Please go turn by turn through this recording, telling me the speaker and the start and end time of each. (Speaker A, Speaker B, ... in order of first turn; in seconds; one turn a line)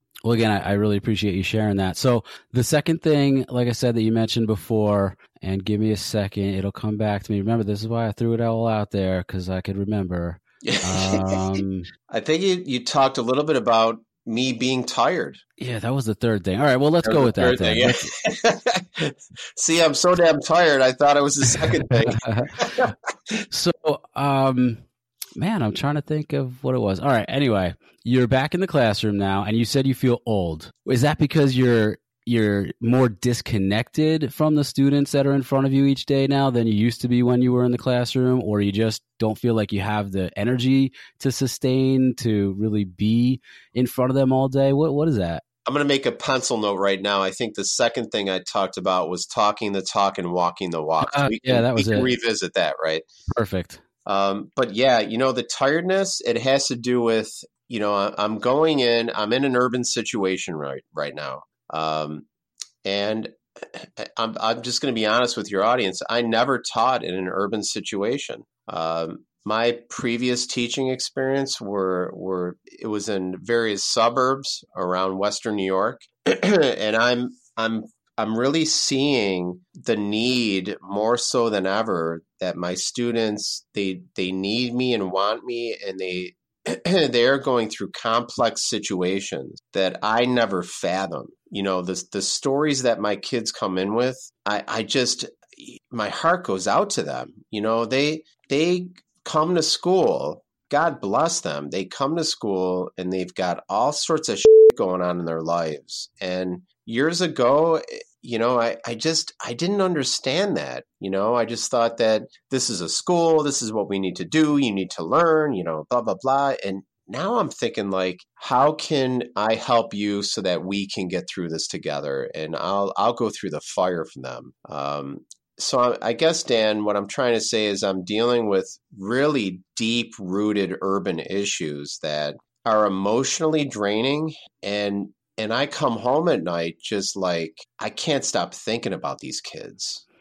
Speaker A: 0.2-11.9
Speaker B: 10.6-11.4
Speaker B: 12.1-15.4
Speaker A: 15.6-18.1
Speaker B: 17.0-23.4
Speaker A: 21.5-22.7
Speaker A: 23.5-24.8
Speaker A: 25.4-45.4
Speaker B: 45.6-53.0
Speaker A: 51.0-52.1
Speaker A: 53.3-53.8
Speaker B: 54.0-62.3
Speaker B: 62.8-140.0